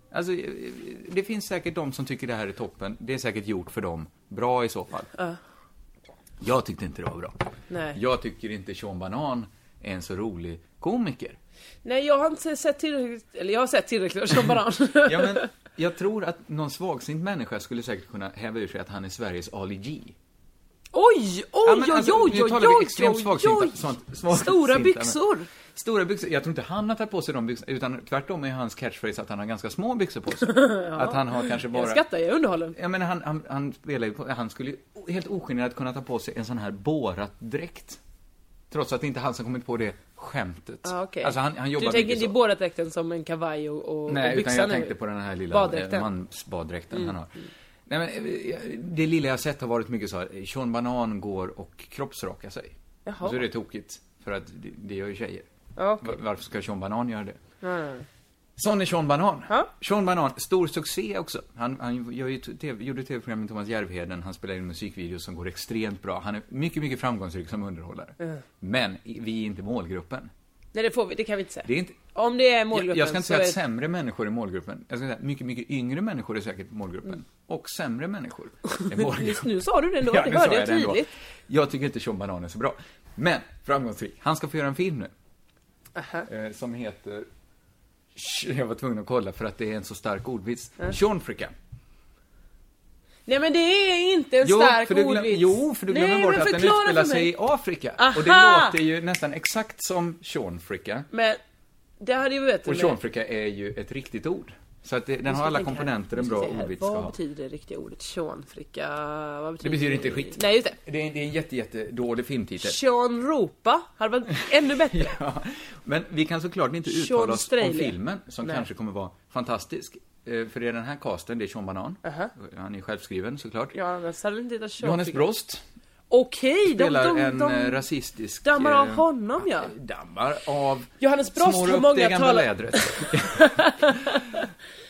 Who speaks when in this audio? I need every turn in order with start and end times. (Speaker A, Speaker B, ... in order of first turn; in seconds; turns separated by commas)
Speaker A: 0.1-5.1, Speaker A: 6.4-7.4, Speaker B: 7.7-8.0, Speaker A: 7.9-11.4, Speaker B: 11.8-15.5, Speaker A: 15.0-20.1, Speaker B: 20.9-25.5, Speaker A: 21.6-32.0, Speaker B: 30.5-32.8, Speaker A: 32.7-38.0, Speaker A: 38.7-42.4, Speaker B: 40.8-45.0, Speaker A: 44.1-47.4, Speaker B: 45.5-46.1, Speaker A: 47.9-55.5, Speaker B: 53.1-53.4, Speaker B: 55.8-56.2, Speaker A: 56.0-57.4, Speaker B: 57.6-58.1, Speaker A: 58.6-70.3, Speaker B: 70.7-73.6, Speaker A: 71.7-72.0, Speaker A: 72.7-85.1, Speaker B: 78.7-81.1, Speaker B: 86.0-86.3, Speaker A: 86.3-87.3, Speaker A: 88.2-91.5, Speaker B: 93.3-97.3, Speaker A: 94.4-101.1, Speaker B: 98.0-98.8, Speaker B: 101.1-101.4, Speaker B: 102.0-103.0, Speaker A: 102.7-107.1, Speaker B: 105.3-110.8, Speaker A: 109.6-112.8, Speaker B: 112.6-115.2, Speaker A: 114.9-123.8, Speaker B: 116.9-118.6, Speaker B: 122.0-122.3, Speaker B: 123.7-125.3, Speaker A: 124.8-125.6, Speaker B: 126.1-127.8, Speaker A: 126.7-133.9, Speaker B: 128.4-129.7, Speaker B: 131.0-134.4